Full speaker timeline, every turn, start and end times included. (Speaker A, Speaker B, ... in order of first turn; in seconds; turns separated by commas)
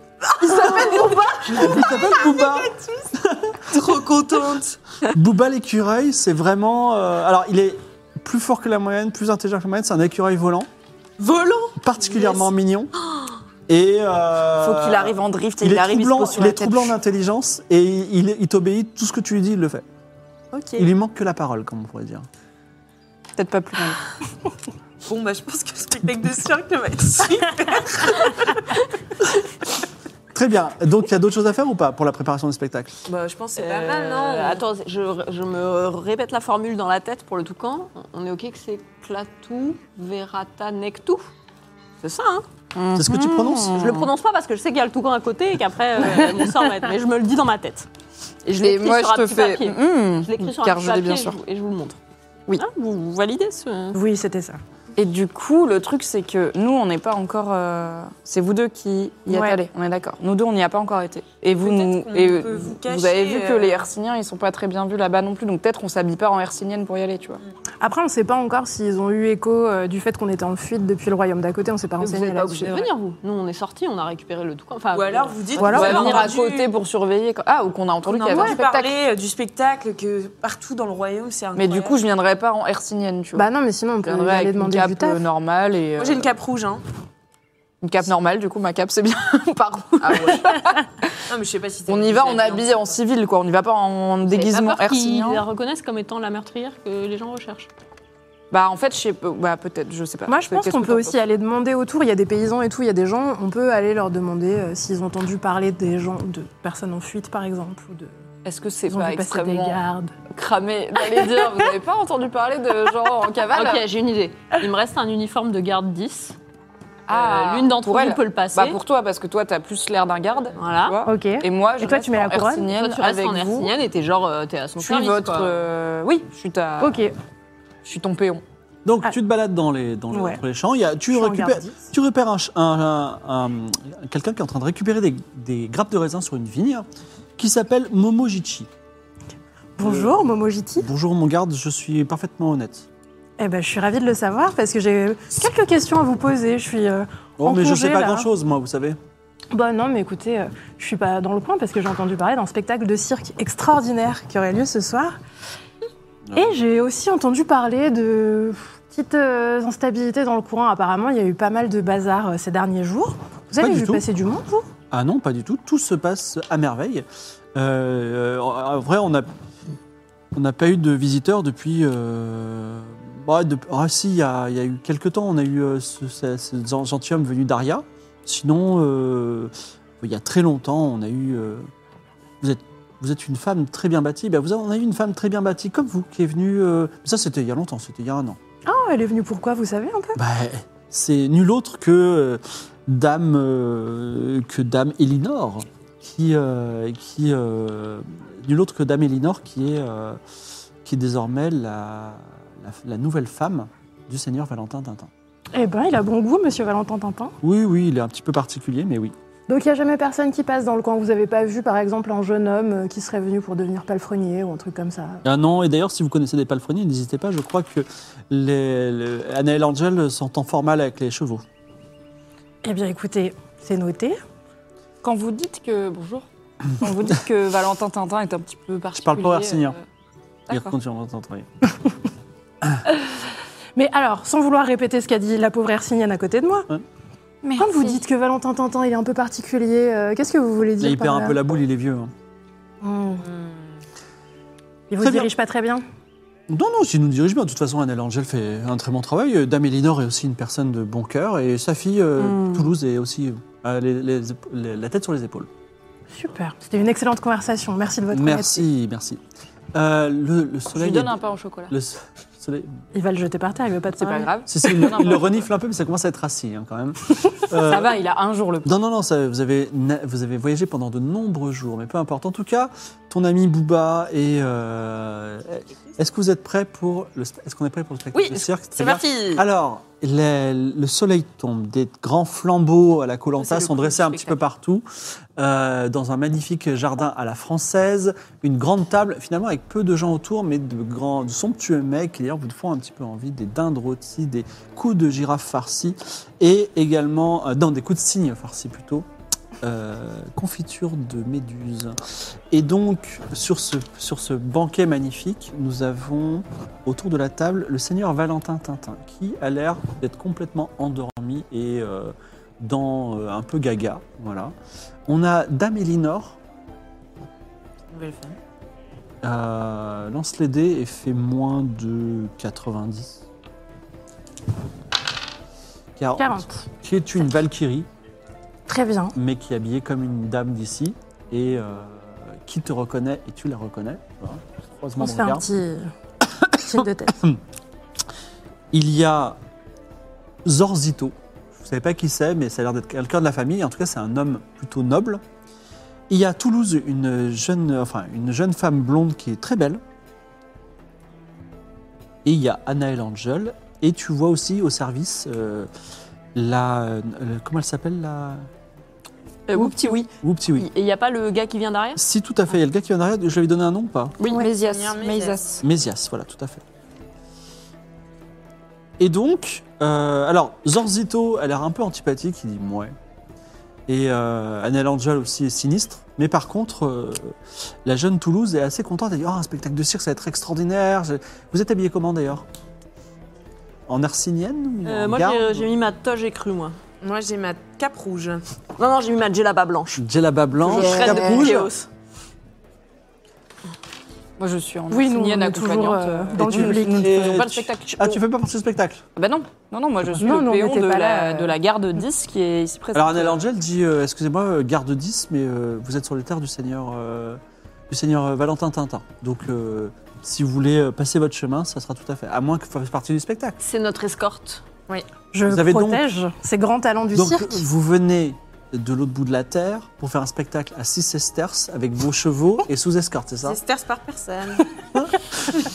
Speaker A: 0.3-3.0, Speaker B: 0.4-3.9, Speaker A: 3.6-4.8, Speaker B: 5.1-10.7, Speaker A: 11.2-12.5, Speaker B: 11.8-12.9, Speaker B: 13.7-19.9, Speaker C: 14.6-16.9, Speaker A: 20.5-20.8, Speaker B: 20.8-22.3, Speaker C: 23.4-24.0, Speaker A: 25.1-28.6, Speaker B: 30.3-32.9, Speaker A: 33.0-34.6, Speaker D: 33.5-41.2, Speaker D: 42.0-42.5, Speaker C: 42.7-44.1, Speaker B: 42.9-44.0, Speaker D: 43.7-47.9, Speaker C: 48.4-51.4, Speaker D: 48.6-52.0, Speaker D: 52.5-54.0, Speaker E: 53.9-54.6, Speaker C: 55.0-67.4, Speaker E: 59.3-59.6, Speaker A: 61.6-63.8, Speaker E: 67.8-72.7, Speaker C: 72.0-72.8, Speaker D: 72.5-76.3, Speaker A: 74.9-76.7, Speaker E: 75.6-76.2, Speaker C: 75.7-78.9, Speaker A: 78.0-82.0, Speaker E: 78.3-78.6, Speaker C: 81.5-83.5, Speaker E: 83.3-85.2, Speaker C: 84.0-86.3, Speaker A: 86.0-86.8, Speaker C: 87.8-91.1, Speaker A: 90.0-90.5, Speaker A: 91.2-92.9, Speaker C: 91.9-95.4, Speaker D: 94.2-97.7, Speaker C: 98.5-101.2, Speaker E: 100.3-108.1, Speaker C: 108.4-109.8, Speaker E: 108.9-110.1, Speaker C: 110.3-113.8, Speaker D: 113.5-116.3, Speaker C: 117.1-123.7, Speaker D: 117.1-118.8, Speaker D: 120.6-121.0, Speaker E: 121.0-122.7, Speaker D: 122.7-125.6, Speaker C: 124.8-127.1, Speaker E: 126.8-127.1, Speaker C: 127.8-128.4, Speaker B: 128.8-138.7, Speaker E: 130.1-130.4, Speaker E: 131.1-131.9, Speaker E: 139.8-140.9, Speaker B: 139.8-140.2, Speaker B: 140.8-142.9, Speaker E: 143.4-148.3, Speaker B: 147.4-149.0, Speaker E: 149.5-155.2, Speaker B: 156.2-156.6, Speaker E: 156.3-164.7, Speaker B: 163.5-164.0, Speaker B: 164.9-169.3, Speaker B: 170.3-181.7, Speaker B: 182.4-188.4, Speaker E: 188.7-190.2, Speaker B: 190.2-200.2, Speaker B: 200.8-205.1, Speaker E: 205.5-207.3, Speaker B: 207.4-209.1, Speaker E: 209.5-215.2, Speaker B: 215.2-221.4, Speaker E: 222.6-224.2, Speaker C: 225.0-229.8, Speaker B: 228.9-229.8, Speaker C: 230.5-230.7, Speaker B: 230.5-231.5, Speaker E: 233.8-236.7, Speaker C: 237.4-238.0, Speaker E: 237.5-241.4, Speaker B: 240.8-242.1, Speaker E: 242.8-243.2, Speaker A: 243.2-243.7, Speaker E: 244.9-245.8, Speaker B: 245.0-245.3, Speaker B: 246.5-255.5, Speaker C: 252.2-252.6, Speaker E: 256.1-258.6, Speaker B: 258.1-259.2, Speaker B: 259.7-262.8, Speaker C: 260.7-261.7, Speaker E: 262.9-264.9, Speaker C: 264.0-265.3, Speaker B: 264.5-267.9, Speaker C: 267.5-268.7, Speaker B: 268.6-299.1, Speaker D: 278.1-279.4, Speaker D: 283.5-284.3, Speaker B: 299.6-302.0, Speaker B: 302.5-314.5, Speaker B: 315.1-316.4, Speaker A: 317.9-318.4, Speaker B: 319.2-323.2, Speaker B: 325.9-327.9, Speaker E: 326.2-326.6, Speaker E: 328.7-329.1, Speaker B: 329.1-335.4, Speaker E: 335.0-335.9, Speaker B: 336.4-337.4, Speaker E: 336.5-337.1, Speaker B: 338.7-339.4, Speaker B: 340.4-345.2, Speaker B: 346.1-349.8, Speaker B: 352.2-355.7, Speaker B: 356.3-358.5, Speaker D: 359.5-362.0, Speaker C: 359.5-360.0, Speaker B: 360.2-360.7, Speaker B: 361.9-364.2, Speaker D: 364.2-364.5, Speaker C: 364.3-365.6, Speaker A: 364.5-365.4, Speaker B: 365.6-366.6, Speaker B: 369.0-372.9, Speaker B: 373.9-382.4, Speaker B: 383.9-385.7, Speaker D: 384.8-386.8, Speaker A: 387.0-388.4, Speaker D: 388.8-390.0, Speaker B: 390.0-391.7, Speaker D: 390.6-391.9, Speaker C: 394.4-398.2, Speaker E: 394.9-397.3, Speaker B: 396.4-399.0, Speaker C: 399.1-403.4, Speaker E: 400.1-401.5, Speaker B: 402.9-413.6, Speaker D: 413.6-414.6, Speaker E: 415.3-417.6, Speaker B: 415.4-416.0, Speaker B: 417.1-423.6, Speaker A: 423.4-424.7, Speaker B: 424.9-425.6